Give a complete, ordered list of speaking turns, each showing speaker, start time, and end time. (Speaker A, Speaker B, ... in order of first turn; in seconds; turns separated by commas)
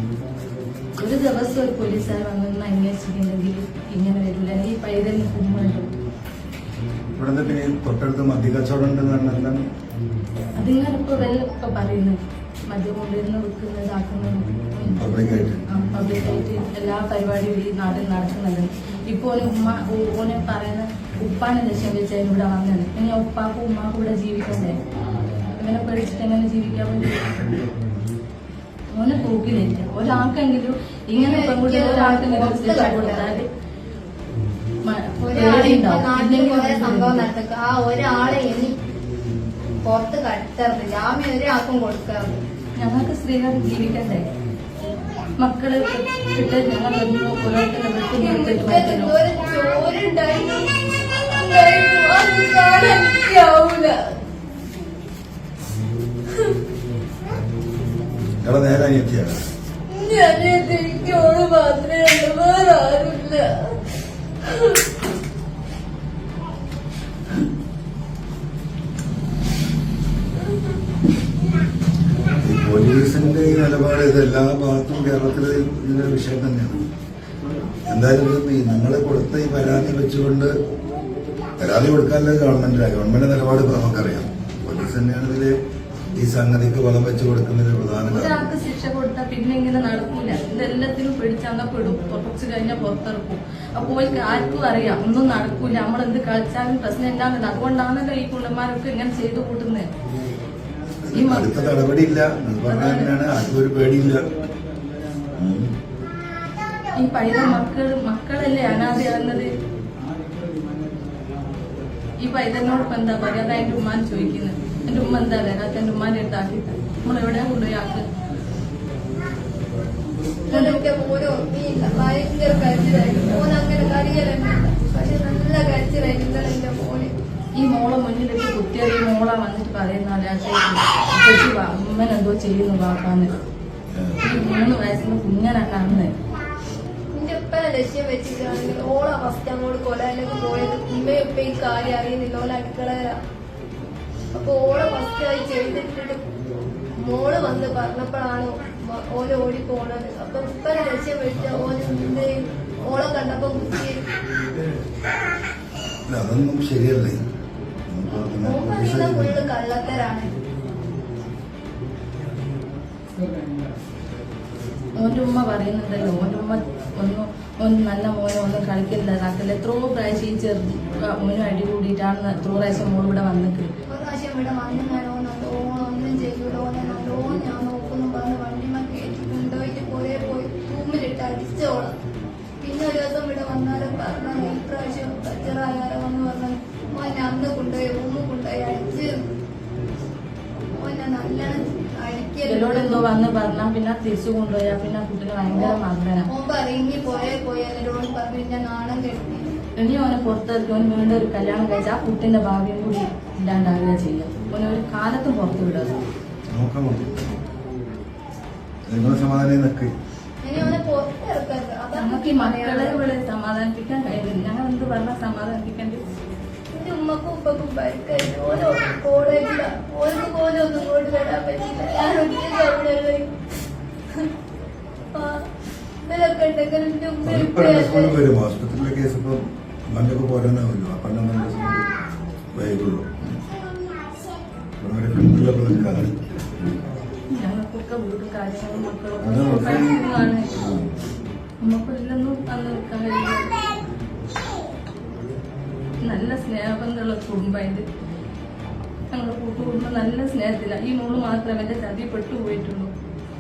Speaker A: 1.0-5.9, Speaker B: 7.2-9.7, Speaker A: 10.6-24.8, Speaker B: 14.8-15.7, Speaker A: 25.5-27.6, Speaker A: 28.9-33.5, Speaker C: 31.2-33.4, Speaker A: 34.9-37.3, Speaker C: 35.3-38.8, Speaker C: 39.8-42.4, Speaker A: 42.8-44.2, Speaker A: 45.4-49.1, Speaker C: 48.2-54.1, Speaker B: 58.2-59.4, Speaker C: 59.9-63.7, Speaker B: 72.4-76.8, Speaker B: 77.9-80.5, Speaker B: 81.6-85.6, Speaker B: 86.2-88.5, Speaker A: 88.1-99.9, Speaker B: 101.1-104.4, Speaker A: 101.1-101.5, Speaker A: 102.7-103.1, Speaker B: 105.4-105.7, Speaker A: 107.0-109.5, Speaker A: 112.2-118.1, Speaker C: 120.5-127.1, Speaker A: 120.5-120.8, Speaker A: 127.6-133.3, Speaker B: 133.9-134.2, Speaker A: 134.2-136.1, Speaker C: 137.1-143.2, Speaker C: 144.3-146.2, Speaker C: 147.0-154.0, Speaker B: 156.1-157.2, Speaker B: 157.9-159.4, Speaker C: 158.1-160.3, Speaker A: 165.0-173.7, Speaker C: 173.9-181.9, Speaker C: 182.6-189.1, Speaker C: 190.8-193.0, Speaker A: 192.4-196.3, Speaker C: 195.5-199.5, Speaker A: 199.8-205.9, Speaker B: 206.5-207.2, Speaker B: 208.9-209.9, Speaker C: 210.4-213.0, Speaker A: 212.0-216.0, Speaker C: 216.7-223.3, Speaker C: 225.1-225.4, Speaker C: 226.1-228.2, Speaker B: 227.2-231.9, Speaker B: 232.5-233.4, Speaker B: 234.8-236.2, Speaker A: 237.4-240.5, Speaker B: 239.2-240.1, Speaker A: 241.6-243.5, Speaker A: 246.0-247.8, Speaker A: 249.1-252.9